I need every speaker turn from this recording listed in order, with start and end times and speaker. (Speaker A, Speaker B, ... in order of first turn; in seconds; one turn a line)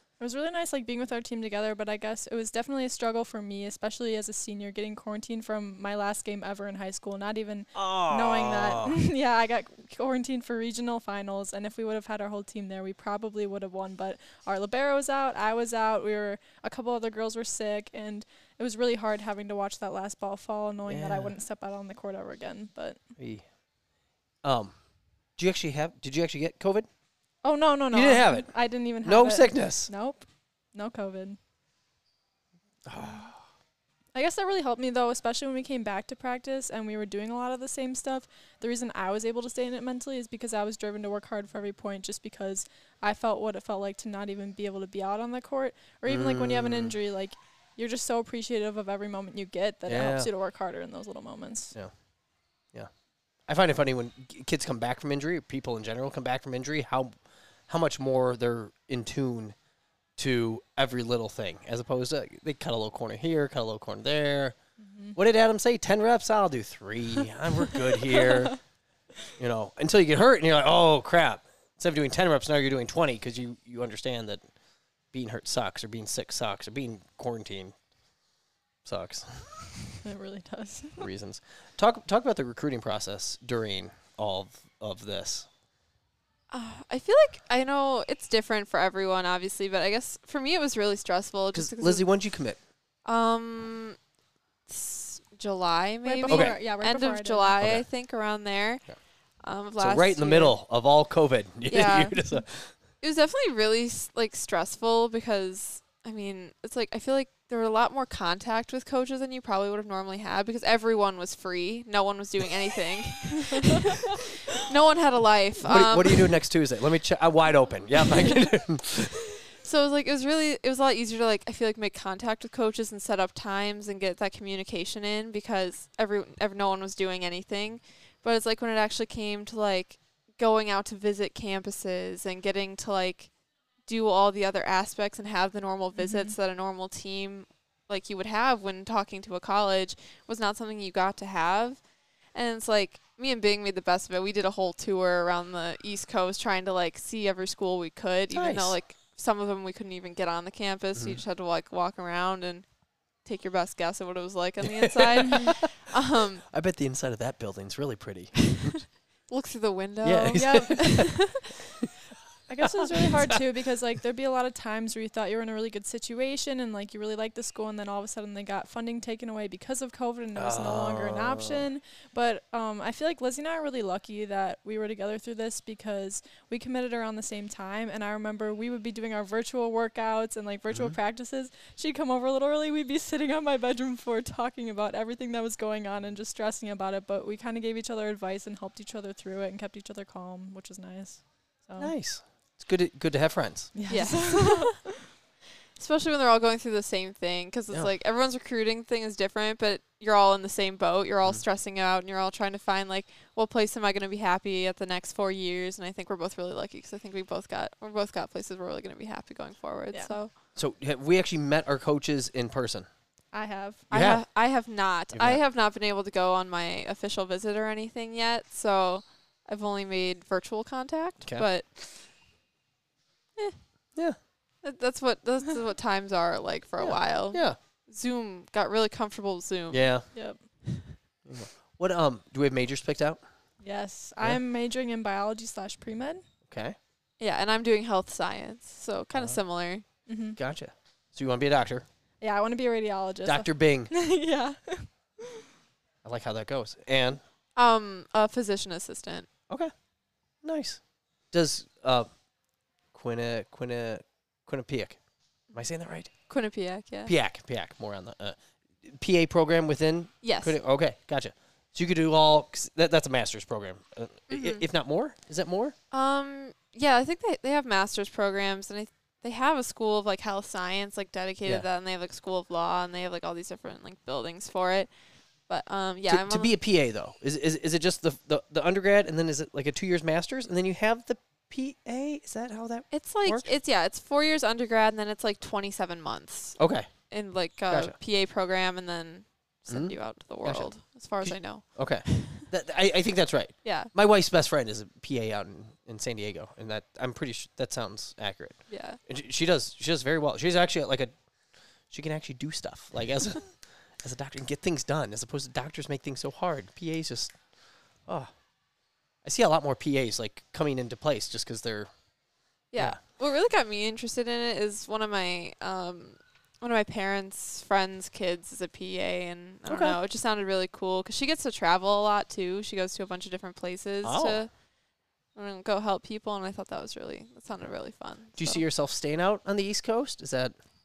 Speaker A: 0.2-23.0
Speaker B: 7.7-9.0
Speaker B: 20.9-21.3
Speaker B: 23.2-23.4
Speaker B: 24.4-24.7
Speaker B: 25.4-26.9
Speaker A: 27.4-31.4
Speaker B: 27.9-28.5
Speaker B: 29.0-29.9
Speaker B: 32.9-33.4
Speaker A: 34.1-51.8
Speaker B: 46.0-47.0
Speaker B: 49.9-50.3
Speaker B: 53.4-57.1
Speaker B: 57.7-59.5
Speaker B: 60.2-64.6
Speaker A: 64.8-65.2
Speaker B: 65.1-68.6
Speaker A: 68.2-68.5
Speaker B: 69.4-74.5
Speaker B: 75.1-77.7
Speaker B: 78.8-79.8
Speaker A: 79.9-81.1
Speaker B: 81.0-85.5
Speaker C: 86.5-92.1
Speaker B: 91.5-92.6
Speaker C: 93.0-94.0
Speaker C: 94.7-100.5
Speaker A: 96.0-97.5
Speaker B: 96.3-96.6
Speaker B: 97.6-97.8
Speaker B: 99.8-102.7
Speaker C: 101.7-102.2
Speaker C: 103.0-116.3
Speaker B: 115.6-119.3
Speaker C: 119.6-133.3
Speaker C: 133.8-156.4
Speaker A: 136.0-136.3
Speaker B: 148.3-148.8
Speaker B: 150.9-151.2
Speaker B: 154.6-155.6
Speaker B: 156.5-158.8
Speaker C: 159.3-161.2
Speaker B: 160.0-161.3
Speaker A: 160.3-161.2
Speaker A: 162.5-191.9
Speaker B: 162.6-163.4
Speaker B: 170.3-171.7
Speaker B: 180.7-181.0
Speaker B: 191.8-193.7
Speaker A: 193.7-195.0
Speaker C: 193.9-194.9
Speaker C: 195.7-210.3
Speaker B: 210.5-212.9
Speaker A: 213.3-213.8
Speaker B: 213.9-214.2
Speaker C: 213.9-221.7
Speaker B: 215.1-215.4
Speaker C: 223.3-223.6
Speaker C: 224.6-230.2
Speaker B: 226.8-227.6
Speaker B: 229.7-230.1
Speaker A: 230.1-230.5
Speaker B: 231.2-233.2
Speaker A: 233.6-236.2
Speaker B: 236.5-236.8
Speaker C: 237.2-239.8
Speaker A: 240.1-240.4
Speaker B: 240.3-241.8
Speaker A: 242.2-245.4
Speaker B: 243.2-243.9
Speaker B: 246.0-247.2
Speaker C: 247.5-249.3
Speaker B: 249.5-249.7
Speaker B: 250.4-252.2
Speaker B: 252.9-256.1
Speaker C: 255.5-257.1
Speaker B: 257.1-265.7
Speaker C: 260.2-260.6
Speaker C: 264.3-264.6
Speaker C: 265.9-276.5
Speaker B: 276.1-283.5
Speaker C: 282.9-292.4
Speaker B: 286.6-286.9
Speaker B: 287.7-287.9
Speaker B: 289.7-301.3
Speaker C: 293.6-293.9
Speaker C: 298.7-299.0
Speaker B: 301.8-307.4
Speaker B: 308.0-308.4
Speaker B: 309.2-311.9
Speaker C: 312.7-324.6
Speaker B: 319.7-320.0
Speaker B: 324.0-324.4
Speaker C: 325.3-328.6
Speaker B: 328.3-330.6